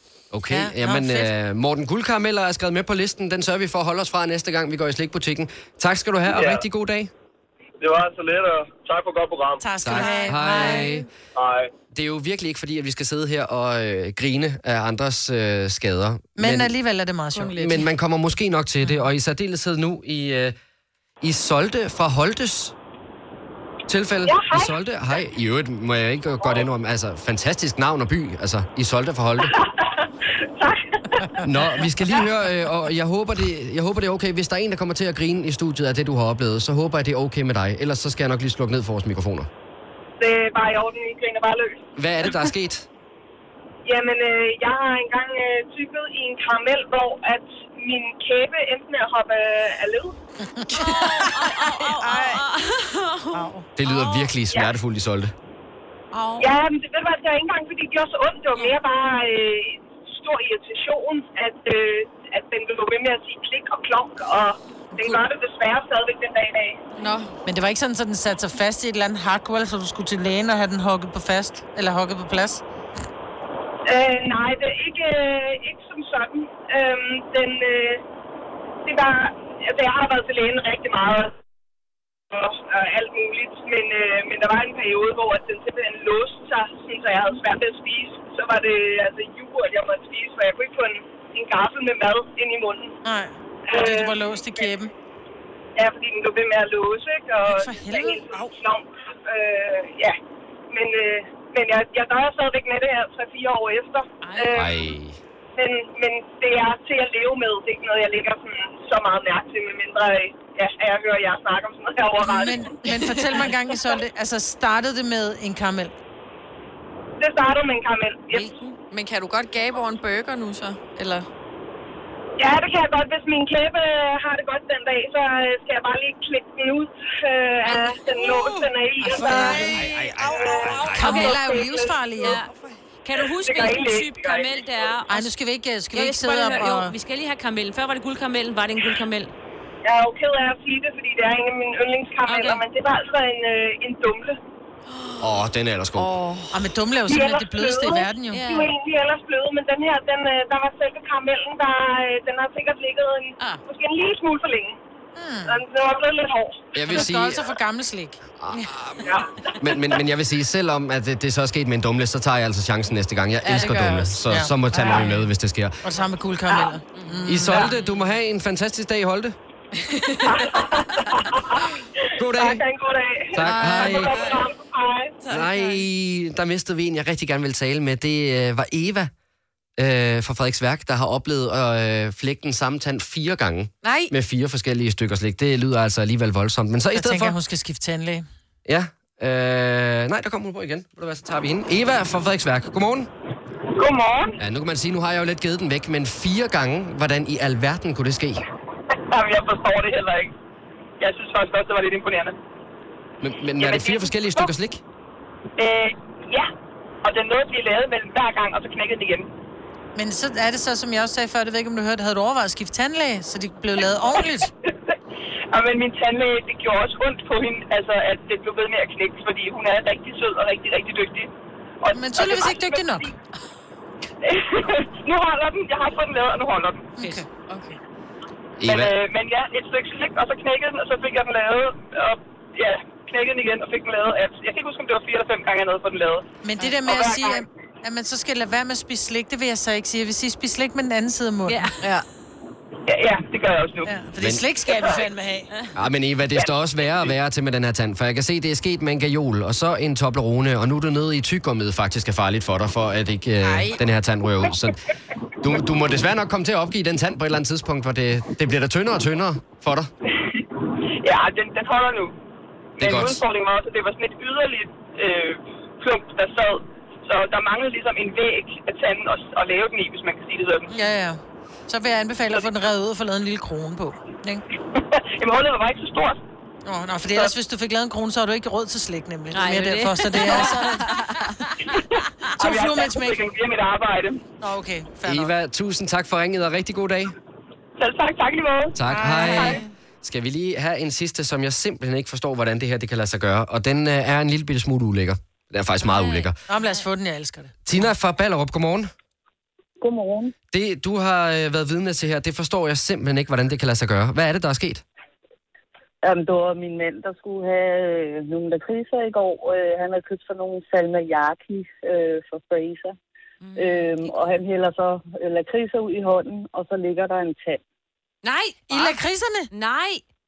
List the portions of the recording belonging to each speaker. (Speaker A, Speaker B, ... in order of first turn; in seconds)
Speaker A: 0.3-7.1, 9.8-11.1, 11.9-16.7, 17.6-20.5, 21.2-22.7, 23.9-29.5, 31.4-39.5, 42.0-42.9, 53.8-55.3, 104.5-105.2, 129.8-130.9, 145.2-146.1, 156.7-157.5, 158.4-159.1, 159.6-165.8, 167.3-169.3, 172.2-172.6, 173.3-174.2, 175.3-179.1, 179.8-187.3, 188.7-193.1, 194.4-198.4, 203.2-204.8, 228.6-228.9, 245.7-254.8, 255.4-259.9, 262.8-263.2, 285.0-287.1, 288.7-296.4, 297.6-298.9, 300.5-304.8
Speaker B: 0.5-1.3, 9.6-10.9, 16.4-17.8, 50.5-51.3, 52.1-52.3, 53.3-53.6, 67.4-72.6, 93.0-94.9, 97.4-98.5, 112.2-115.9, 129.0-132.4, 135.1-136.9, 146.5-148.4, 155.2-155.6, 156.9-158.2, 164.3-165.3, 165.8-167.8, 173.6-173.9, 186.9-188.2, 209.9-214.5, 221.9-223.1, 227.0-227.3, 236.4-241.7, 243.8-245.5, 270.7-274.4, 276.6-281.0, 282.4-283.2, 284.4-285.3, 288.9-289.6, 296.5-297.7, 318.7-319.5
Speaker C: 6.3-6.6, 7.8-9.7, 11.3-11.7
Speaker D: 10.5-11.0, 17.3-17.9, 52.1-52.4, 67.0-67.3, 118.9-121.3, 132.5-132.8, 144.9-145.2, 146.0-146.5, 163.4-164.1, 169.9-170.3, 175.2-175.8, 227.5-227.8, 241.8-242.1, 253.4-253.8
Speaker E: 24.2-25.2, 29.4-31.4, 40.2-41.8, 43.8-50.1, 56.4-66.8, 73.8-78.0, 78.8-81.3, 82.3-92.9, 93.7-94.7, 95.8-100.2, 100.7-104.9, 105.6-112.8, 117.2-118.5, 122.4-132.4, 133.2-134.6, 139.8-144.4, 147.1-154.8, 155.4-156.7, 159.0-159.7, 170.2-171.6, 172.2-175.2, 193.8-194.4, 199.1-200.3, 201.0-202.3, 203.6-204.5, 205.6-206.5, 207.0-209.3, 215.5-221.3, 221.8-223.1, 224.2-226.8, 228.6-236.2, 236.8-237.4, 242.9-243.9, 261.0-262.1, 262.8-270.7, 274.7-276.2, 282.4-284.2, 287.8-288.8, 289.3-289.6
Speaker F: 50.7-53.3, 53.8-54.3, 56.2-56.5, 104.2-104.7, 118.3-118.7, 127.7-128.0, 130.9-131.4, 132.2-132.5, 133.0-135.3, 135.9-139.3, 142.2-142.6, 148.3-148.7, 158.5-159.0, 166.9-168.0, 241.4-241.8, 279.3-281.7, 295.8-296.3, 313.4-314.4, 318.2-319.0, 319.5-320.0
Speaker G: 299.8-300.3, 306.0-312.9, 313.6-317.6